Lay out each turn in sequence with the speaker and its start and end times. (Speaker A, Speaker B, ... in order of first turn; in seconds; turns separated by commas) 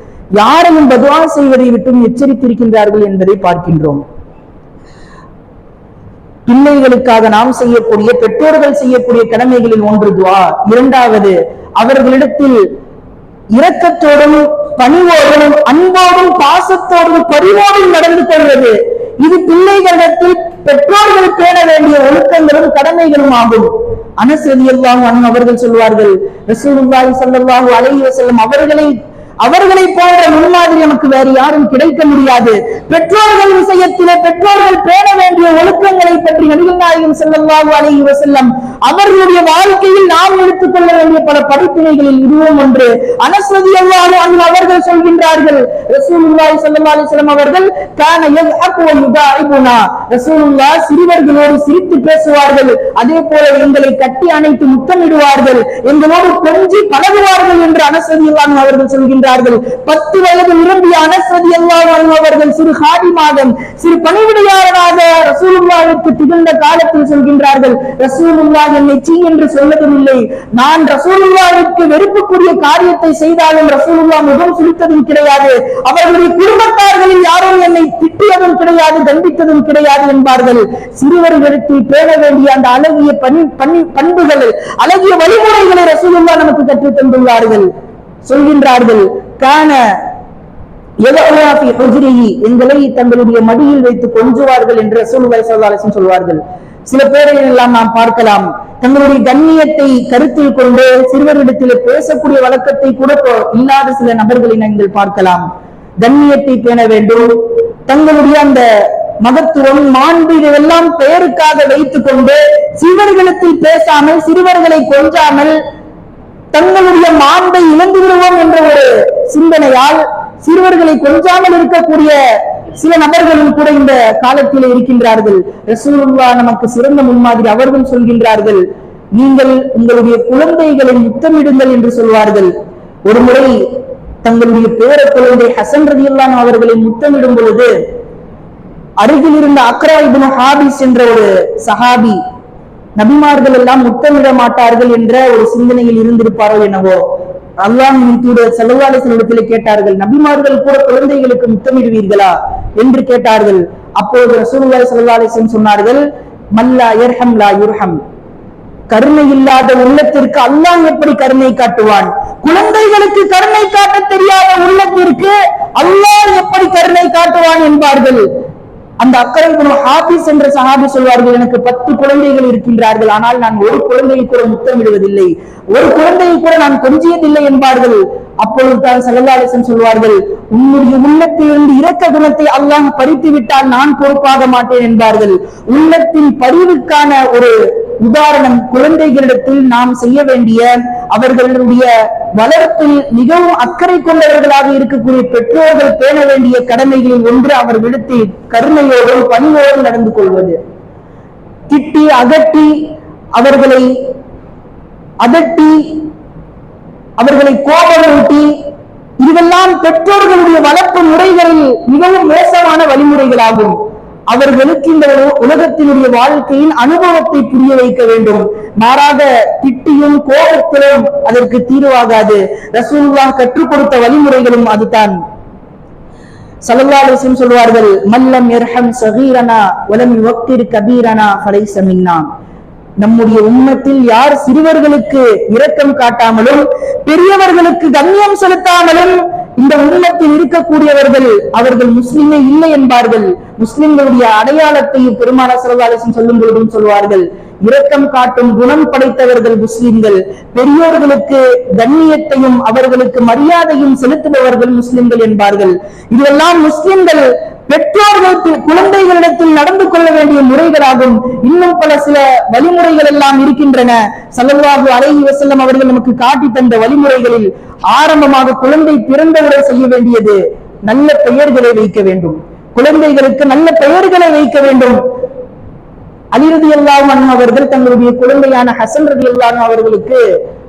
Speaker A: 0.4-4.0, Speaker A: 6.5-12.6, Speaker A: 13.5-87.7, Speaker A: 88.2-90.0, Speaker A: 91.0-105.4, Speaker A: 106.0-107.3, Speaker A: 107.9-108.6, Speaker A: 109.2-115.6, Speaker A: 116.5-122.2, Speaker A: 122.7-128.6, Speaker A: 129.2-132.5, Speaker A: 133.1-133.6, Speaker A: 134.2-137.7, Speaker A: 139.0-142.2, Speaker A: 143.0-147.0, Speaker A: 147.6-156.0, Speaker A: 156.6-158.0, Speaker A: 158.9-168.2, Speaker A: 169.0-200.6, Speaker A: 201.7-202.8, Speaker A: 203.4-203.9, Speaker A: 205.2-206.1, Speaker A: 207.2-208.5, Speaker A: 209.2-213.8, Speaker A: 214.3-225.2, Speaker A: 226.7-232.3, Speaker A: 233.0-275.0, Speaker A: 276.3-280.2